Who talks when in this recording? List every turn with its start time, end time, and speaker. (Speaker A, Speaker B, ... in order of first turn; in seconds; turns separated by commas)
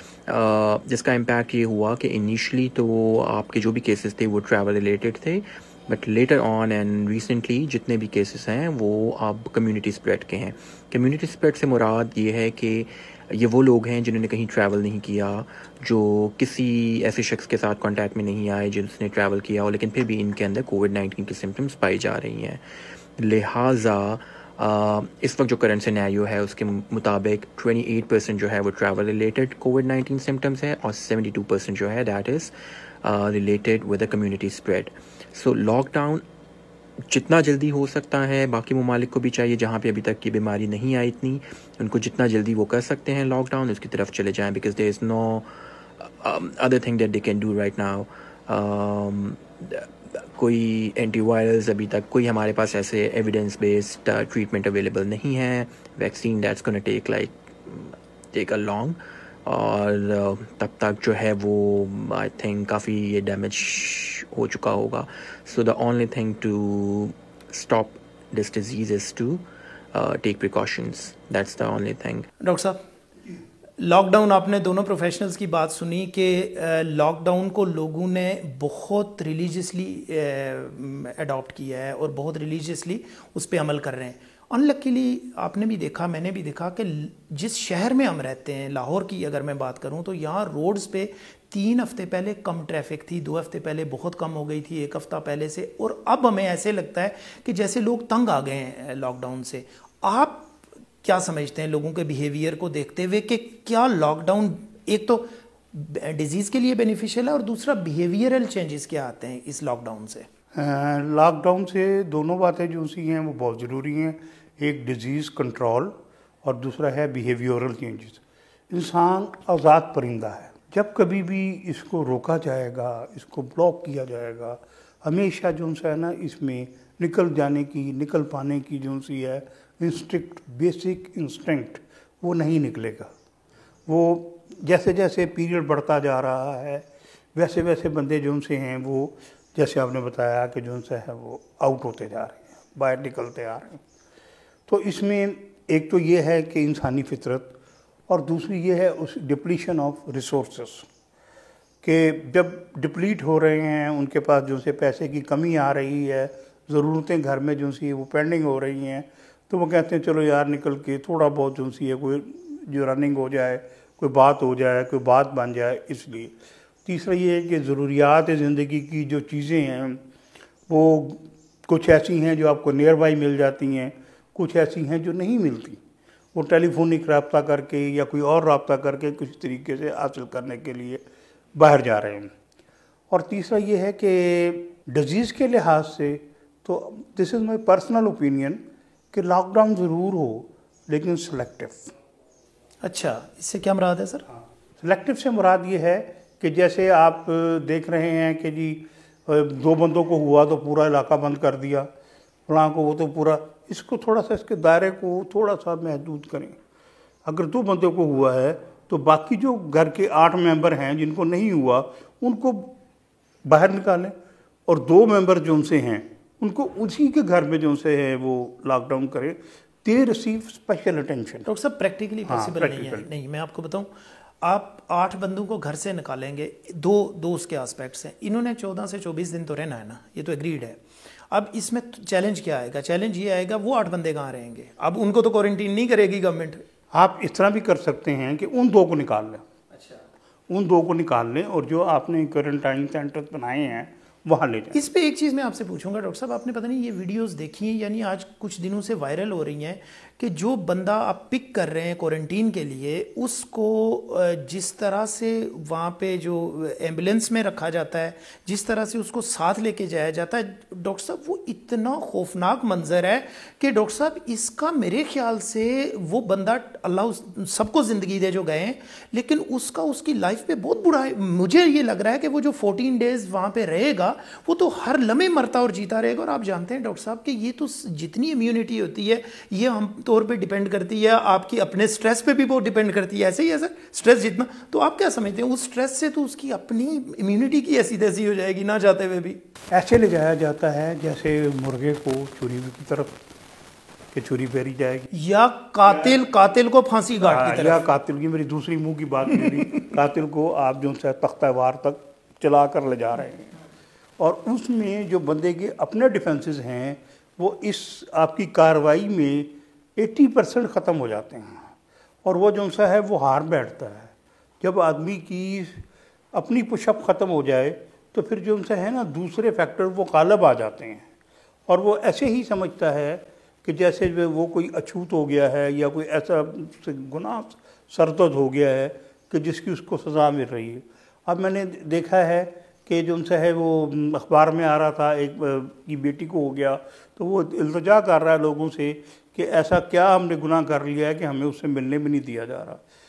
Speaker A: 0.3-22.6, Speaker A: 23.2-32.5, Speaker A: 33.0-36.2, Speaker A: 37.1-72.3, Speaker B: 72.4-72.8, Speaker B: 73.8-110.3, Speaker C: 110.5-133.1, Speaker C: 133.9-143.8, Speaker C: 144.7-147.6, Speaker C: 148.1-150.9, Speaker C: 151.8-170.0, Speaker C: 170.7-175.8, Speaker C: 176.3-182.3, Speaker C: 183.1-191.9, Speaker B: 192.8-194.2, Speaker C: 194.8-201.9, Speaker C: 202.5-206.6, Speaker C: 207.2-212.8, Speaker C: 213.4-214.2, Speaker C: 214.7-221.5, Speaker B: 221.4-223.9, Speaker C: 222.2-223.1, Speaker B: 224.4-236.6, Speaker C: 236.9-239.5, Speaker C: 240.5-244.8, Speaker B: 244.7-289.4, Speaker C: 289.7-293.2, Speaker C: 294.1-295.1, Speaker B: 295.1-297.8, Speaker C: 297.2-303.5, Speaker C: 304.2-311.7, Speaker C: 312.2-315.8, Speaker C: 316.3-321.1, Speaker C: 321.7-342.8